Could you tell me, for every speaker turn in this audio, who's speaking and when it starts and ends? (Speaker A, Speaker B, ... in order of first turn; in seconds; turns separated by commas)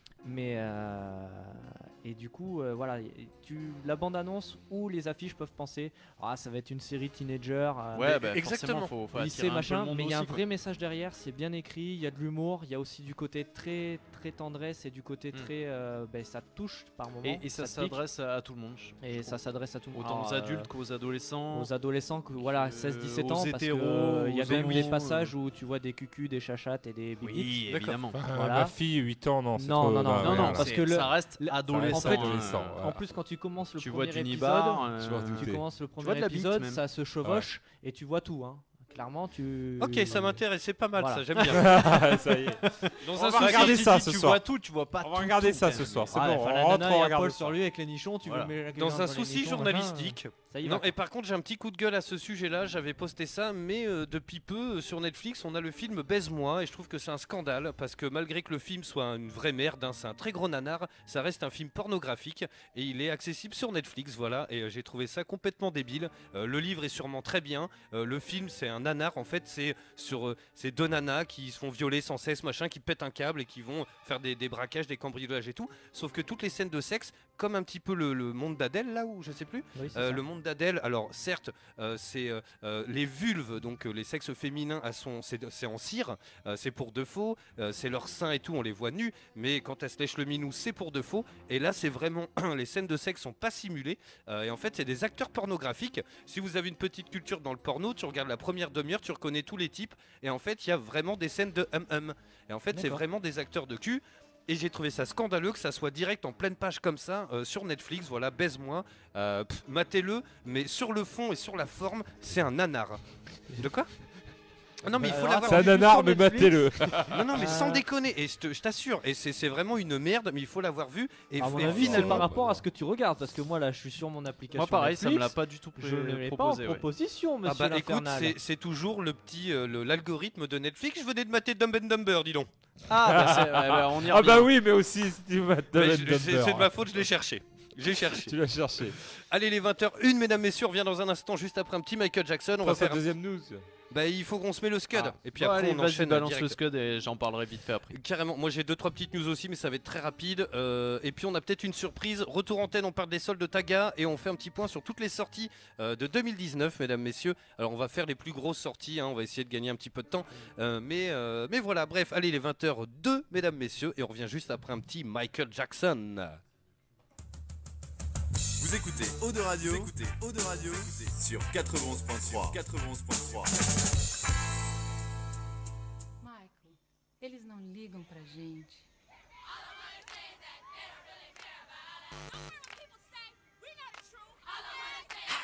Speaker A: 0.2-8.3, Speaker B: 7.9-10.4, Speaker C: 8.2-8.9, Speaker A: 9.1-18.0, Speaker B: 17.2-19.4, Speaker A: 19.0-20.7, Speaker B: 19.9-21.7, Speaker A: 21.5-28.7, Speaker B: 22.4-25.3, Speaker B: 27.2-28.2, Speaker C: 27.7-28.0, Speaker D: 28.1-30.8, Speaker A: 29.5-40.4, Speaker B: 30.2-32.8, Speaker D: 31.7-33.0, Speaker B: 33.8-36.8, Speaker D: 35.0-35.6, Speaker C: 39.8-42.0, Speaker A: 41.0-41.2, Speaker B: 41.4-41.7, Speaker D: 41.5-42.6, Speaker B: 42.8-46.2, Speaker C: 43.0-44.2, Speaker D: 43.1-44.4, Speaker D: 45.0-47.6, Speaker A: 46.1-50.9, Speaker B: 48.2-48.5, Speaker C: 48.7-113.0, Speaker A: 79.7-80.2, Speaker A: 102.8-103.0, Speaker C: 113.6-113.9, Speaker C: 114.8-115.8, Speaker D: 114.9-117.5, Speaker A: 115.0-117.8, Speaker C: 117.1-122.3, Speaker A: 121.4-128.3, Speaker D: 121.6-122.6, Speaker B: 124.5-126.8, Speaker C: 127.4-132.5, Speaker B: 132.9-134.5, Speaker D: 133.0-136.9, Speaker C: 135.7-138.3, Speaker D: 138.0-139.0, Speaker C: 139.3-143.0, Speaker D: 142.6-143.6, Speaker C: 143.9-146.6, Speaker B: 144.9-148.0, Speaker C: 147.9-166.4, Speaker E: 168.6-173.5, Speaker F: 176.2-178.8